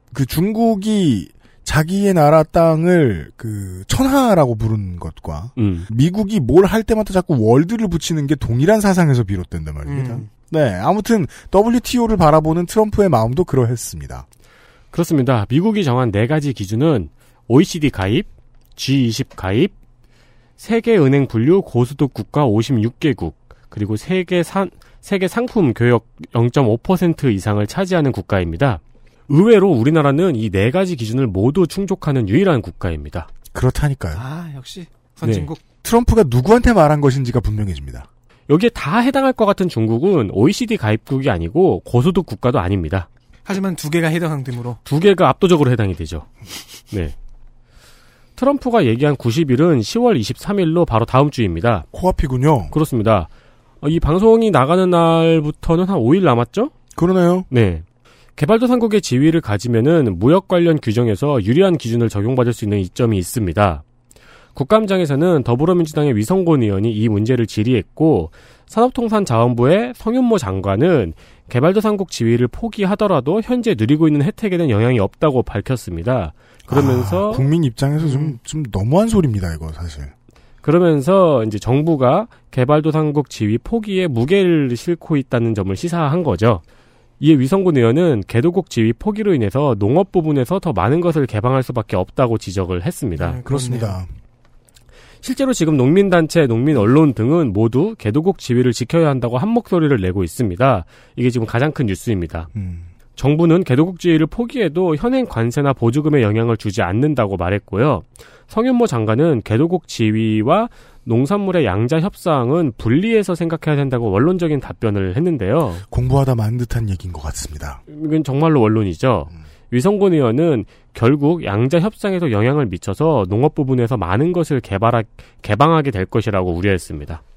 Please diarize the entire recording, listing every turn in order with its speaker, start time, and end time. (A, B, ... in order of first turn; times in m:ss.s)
0:00.1-0:14.3 A
0:05.6-0:05.9 B
0:09.9-0:10.3 C
0:14.9-0:19.7 B
0:20.6-0:33.3 B
0:33.5-0:34.2 A
0:34.2-0:35.6 C
0:35.2-0:35.5 B
0:35.8-0:38.1 A
0:38.5-0:43.1 B
0:43.5-0:44.8 C
0:44.8-0:46.3 B
0:48.4-0:51.9 B
0:51.9-0:52.8 A
0:52.7-0:53.3 B
0:53.8-0:56.7 B
0:57.0-0:57.5 A
0:57.5-0:57.8 B
0:58.4-1:03.8 B
1:04.6-1:17.5 B
1:16.7-1:20.1 A
1:20.6-1:26.6 B
1:27.2-1:33.4 B
1:33.2-1:34.0 C
1:33.4-1:34.1 A
1:35.2-1:42.5 B
1:42.5-1:42.9 A
1:43.2-1:55.8 B
1:55.9-1:57.8 A
1:57.9-2:07.2 B